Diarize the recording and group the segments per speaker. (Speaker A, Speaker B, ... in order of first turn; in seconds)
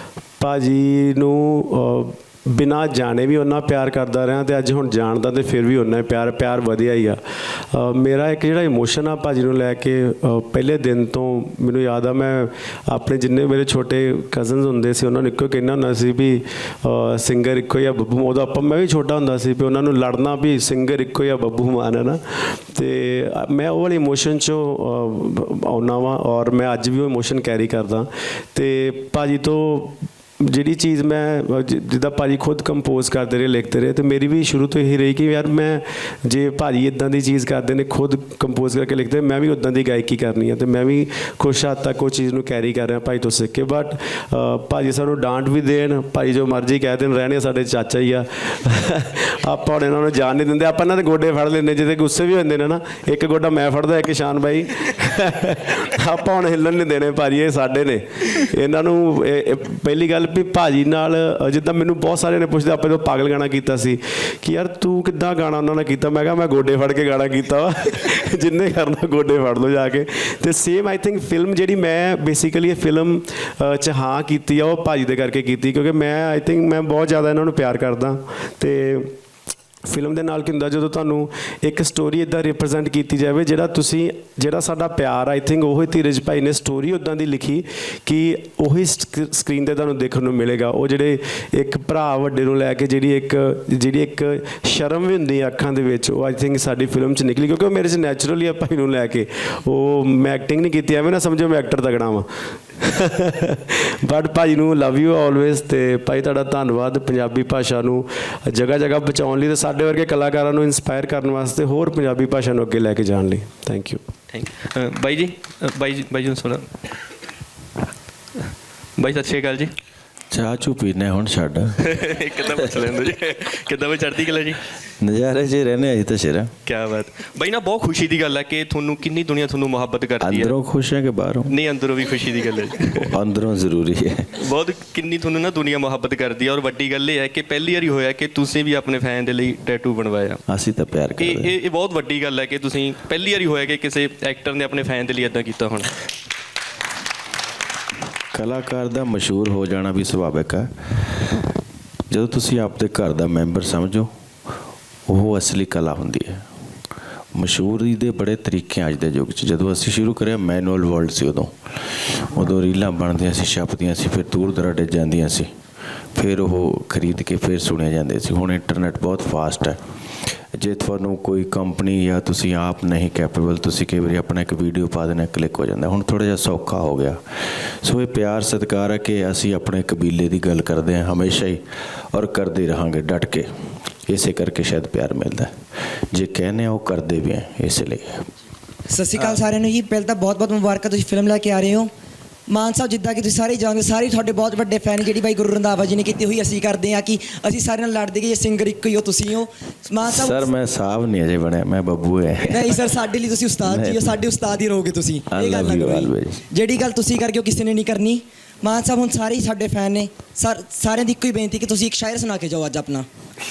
Speaker A: 0.4-79.1, 79.8-114.0
Speaker B: 114.3-116.8, 119.0-119.7, 121.8-124.6, 126.7-130.5, 131.5-133.1, 134.4-140.4, 141.2-145.9
Speaker C: 120.3-121.8, 125.0-126.5, 130.2-131.5, 132.9-134.4, 140.5-141.5, 148.3-151.3, 152.1-154.1, 155.1-156.4, 157.3-165.5, 166.1-169.8, 170.5-188.2, 200.0-202.9, 203.6-204.2, 205.3-206.4
Speaker D: 188.9-191.9, 192.5-200.5, 202.5-213.1